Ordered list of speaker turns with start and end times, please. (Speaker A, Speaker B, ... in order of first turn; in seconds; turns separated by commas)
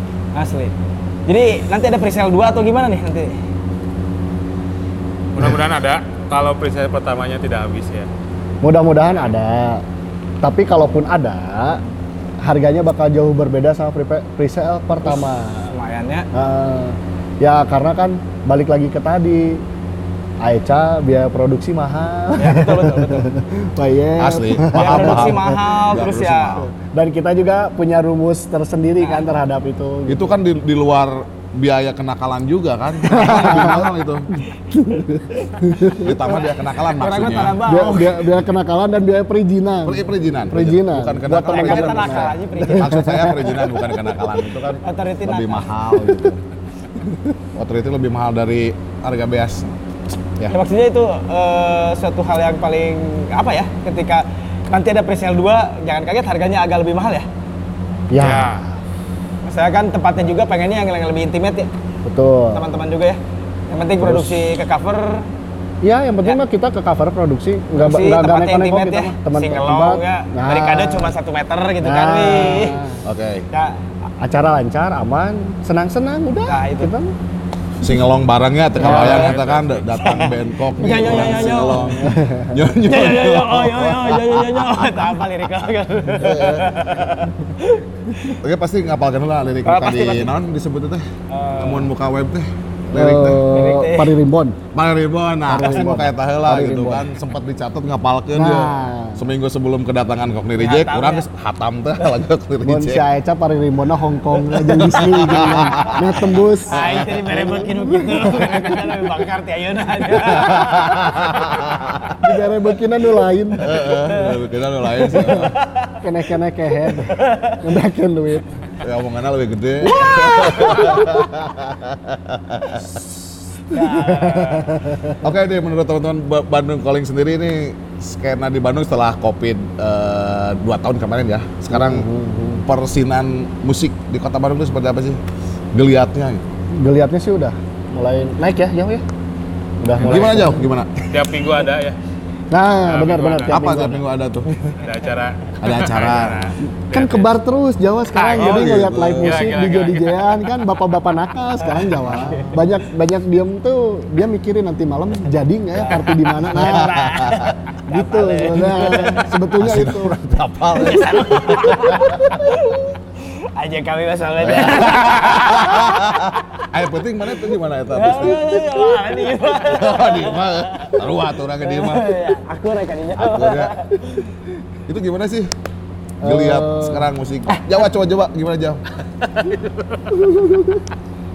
Speaker A: 0.3-0.7, Speaker A: 1.3-3.3, Speaker B: 5.3-8.1, Speaker C: 8.6-9.8, Speaker C: 10.4-11.8, Speaker C: 12.4-15.7, Speaker A: 15.1-16.3, Speaker C: 16.3-19.6, Speaker C: 20.4-25.4, Speaker A: 22.4-23.3, Speaker D: 24.2-26.7, Speaker A: 24.7-26.7, Speaker C: 26.9-30.4, Speaker D: 30.1-34.3, Speaker C: 33.1-33.9, Speaker C: 34.7-36.1, Speaker D: 36.0-37.6, Speaker A: 36.3-38.2, Speaker C: 37.6-43.7, Speaker D: 39.9-46.4, Speaker A: 41.3-43.1, Speaker A: 44.8-45.7, Speaker D: 47.5-49.7, Speaker A: 50.5-57.3, Speaker C: 58.1-58.7, Speaker B: 58.2-58.6, Speaker A: 59.5-61.7, Speaker C: 62.0-62.6, Speaker A: 62.5-65.3, Speaker C: 64.0-64.4, Speaker C: 65.8-71.1, Speaker A: 67.8-72.8, Speaker C: 71.8-73.0, Speaker D: 73.0-73.5, Speaker C: 74.2-77.1, Speaker A: 76.5-76.9, Speaker D: 77.8-86.7, Speaker C: 78.8-79.3, Speaker B: 78.8-80.2, Speaker A: 78.9-79.4, Speaker A: 80.0-82.0, Speaker C: 81.7-82.5, Speaker A: 82.9-88.3, Speaker D: 88.4-91.0, Speaker A: 89.7-90.3, Speaker A: 91.3-91.9, Speaker D: 91.6-93.4, Speaker C: 92.9-94.6, Speaker A: 93.5-94.1, Speaker D: 94.7-103.1, Speaker C: 95.5-97.1, Speaker C: 98.3-99.2, Speaker A: 100.6-101.3, Speaker C: 102.6-109.0, Speaker D: 104.5-106.1, Speaker A: 106.7-111.6, Speaker D: 106.8-107.1, Speaker D: 110.1-112.2, Speaker C: 112.2-113.8, Speaker D: 113.6-115.5, Speaker A: 113.9-114.4, Speaker A: 115.0-116.0, Speaker C: 116.0-118.6, Speaker A: 116.9-117.6, Speaker D: 118.8-122.8, Speaker A: 119.9-121.0, Speaker C: 120.7-121.0, Speaker C: 123.7-125.2, Speaker A: 123.7-124.7, Speaker D: 125.2-132.1, Speaker C: 131.7-132.6, Speaker D: 132.6-135.2, Speaker D: 135.7-136.4, Speaker C: 136.7-139.0, Speaker C: 139.8-140.7, Speaker D: 140.0-140.9, Speaker B: 140.0-140.3, Speaker B: 141.0-142.0, Speaker C: 142.5-144.0, Speaker B: 142.9-143.6, Speaker D: 143.5-144.6, Speaker B: 144.8-147.3, Speaker D: 145.6-146.6, Speaker C: 146.9-157.0, Speaker B: 148.2-150.5, Speaker D: 148.3-149.4, Speaker A: 151.7-152.6, Speaker A: 155.7-159.3, Speaker D: 156.5-157.6, Speaker C: 157.9-160.2, Speaker D: 159.6-162.3, Speaker A: 160.8-166.6, Speaker D: 164.4-168.6, Speaker A: 167.9-171.1, Speaker D: 169.6-172.2, Speaker A: 171.6-174.3, Speaker D: 173.2-173.8, Speaker D: 174.9-175.5, Speaker D: 176.2-178.8, Speaker C: 176.2-177.1, Speaker C: 180.1-180.8